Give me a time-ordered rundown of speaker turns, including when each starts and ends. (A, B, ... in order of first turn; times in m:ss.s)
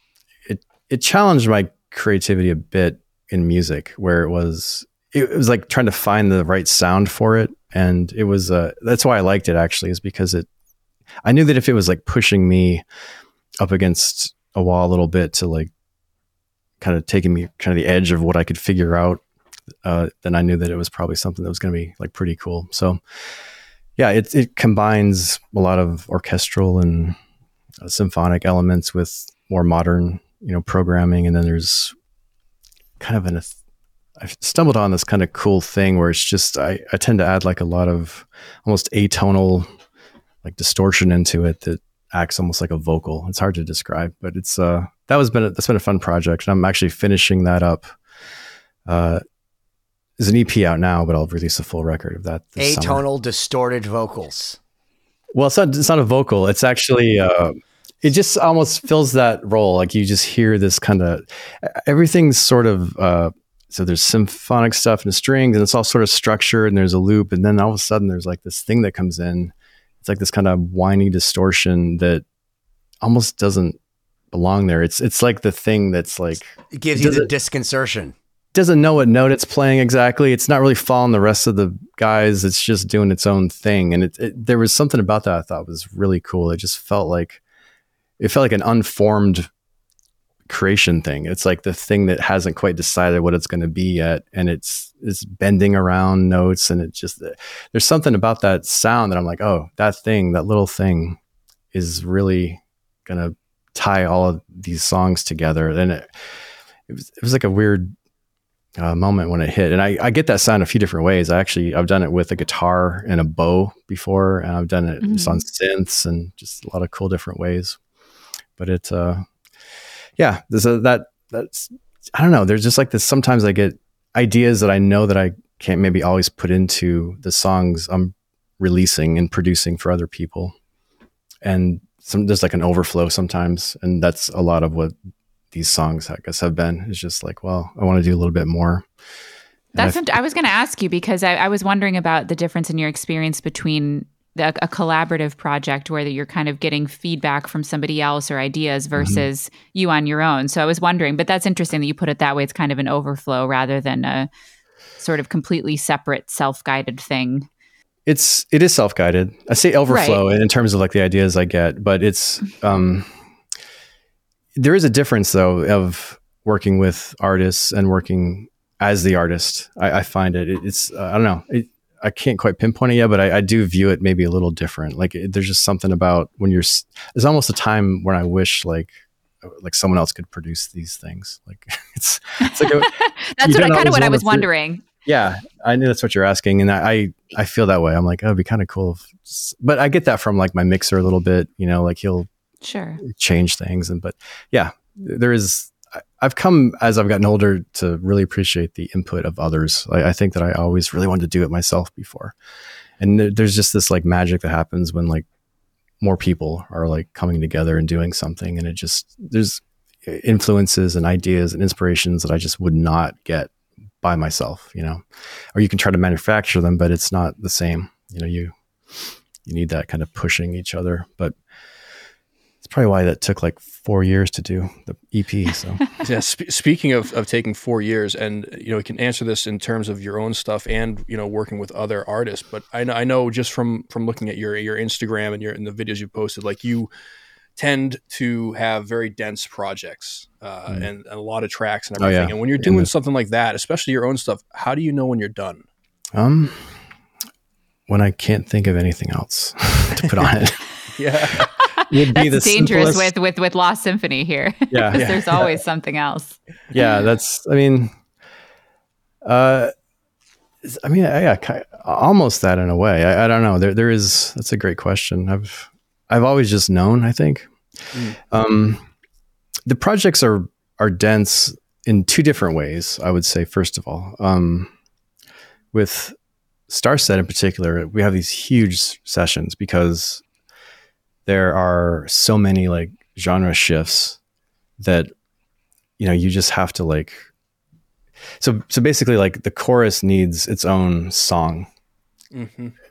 0:00.4-0:10.5 A
0:11.2-0:12.8 A
0:13.6-0:15.7 A
0:16.8-0:19.2 A
0:19.8-0:23.0 A
0:24.0-0:27.2 A
0:27.8-0:31.9 A
0:33.0-0:33.5 A
0:34.2-0:39.7 A
0:40.4-0:47.9 A
0:48.8-0:49.2 A
0:50.2-0:53.0 A
0:52.6-0:54.6 B
0:55.3-1:12.2 A
1:13.0-1:13.8 A
1:14.3-1:17.3 A
1:16.7-1:18.1 B
1:18.5-1:27.4 A
1:28.2-1:29.5 A
1:30.5-1:41.2 A
1:41.7-1:46.1 A
1:46.9-1:47.9 A
1:48.8-1:57.8 A
1:55.0-1:55.4 C
1:58.6-1:59.2 A
2:00.2-2:10.5 A
2:11.4-2:14.9 A
2:15.5-2:18.9 A
2:19.7-2:20.0 A
2:19.8-2:34.3 C
2:29.0-2:29.2 A
2:35.0-2:37.5 C
2:38.0-2:43.1 A
2:39.9-2:40.2 C
2:44.6-3:04.5 A
3:02.4-3:04.8 C
3:05.0-3:12.3 A
3:12.6-3:13.0 C
3:13.0-3:22.3 A
3:23.0-3:25.2 A
3:26.0-3:35.0 A
3:35.5-3:41.4 A
3:42.6-3:45.8 A
3:46.0-3:56.9 D
3:57.6-4:05.6 D
4:02.0-4:02.9 A
4:06.1-4:06.7 A
4:07.9-4:10.6 A
4:11.0-4:11.5 D
4:11.8-4:17.0 C
4:11.9-4:13.1 A
4:14.7-4:15.5 A
4:14.9-4:15.4 D
4:16.7-4:17.9 A
4:19.2-4:19.7 A
4:20.6-4:27.5 A
4:28.2-4:28.8 A
4:29.6-4:34.7 A
4:35.7-4:36.2 A
4:36.7-4:40.2 A
4:41.2-4:44.2 A
4:44.8-4:45.1 A
4:46.0-4:47.3 A
4:48.4-4:51.7 A
4:52.3-4:52.7 D